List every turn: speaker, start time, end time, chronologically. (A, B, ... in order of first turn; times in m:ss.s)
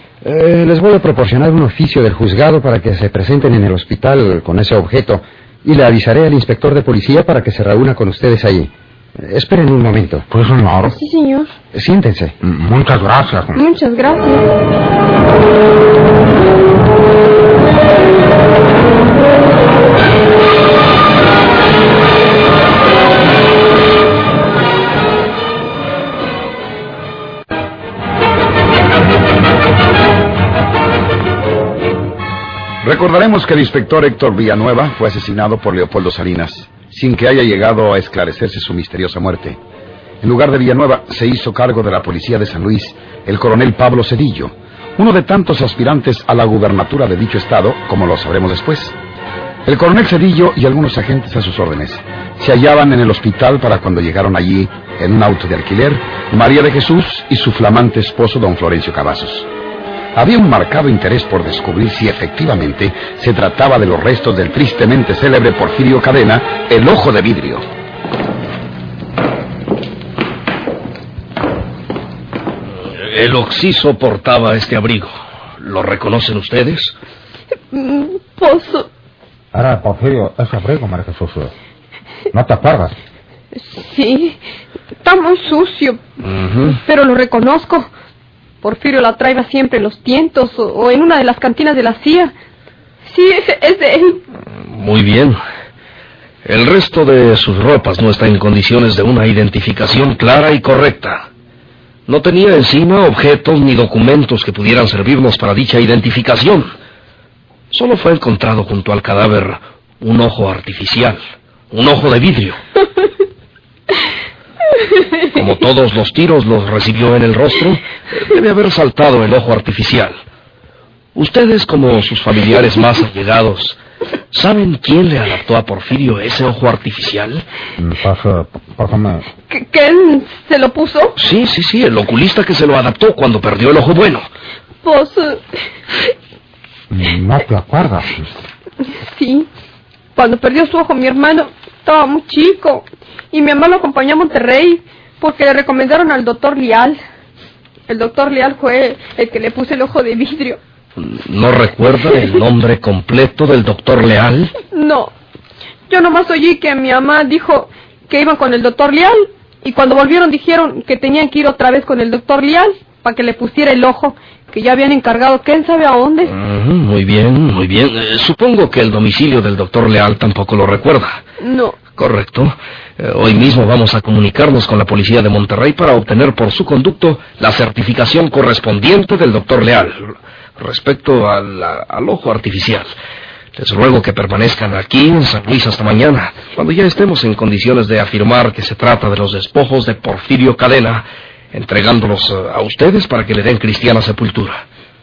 0:00.2-0:10.3 A
0:10.3-0:11.0 B
0:10.8-0:11.5 C
0:11.7-0:12.4 A
0:12.4-0:13.6 B
0:13.5-0:14.5 C
0:32.8-0:39.6 D
0:40.2-0:49.0 D
0:49.6-0:59.5 D
1:00.1-1:07.6 D
1:12.8-1:16.9 E
1:17.7-1:18.9 C
1:19.5-1:21.5 B
1:22.3-1:23.0 B
1:23.5-1:24.4 C
1:25.0-1:26.0 C
1:26.2-1:26.8 E
1:26.7-1:27.9 C
1:28.6-1:32.3 C
1:33.0-1:34.2 C
1:34.5-1:35.4 E
1:36.4-1:41.3 E
1:42.1-1:46.7 E
1:47.7-1:51.2 E
1:51.7-1:52.6 E
1:55.3-2:00.2 E
2:01.1-2:03.8 E
2:04.3-2:07.4 E
2:07.8-2:09.2 B
2:09.5-2:11.2 C
2:11.2-2:14.2 E
2:14.8-2:16.1 C
2:16.9-2:18.3 B
2:18.8-2:19.5 C
2:20.2-2:27.0 C
2:27.9-2:30.6 C
2:31.0-2:34.5 E
2:34.7-2:35.1 C
2:35.9-2:46.3 C
2:46.3-2:51.2 E
2:51.4-2:51.8 C
2:52.0-3:02.9 E
3:03.6-3:14.6 E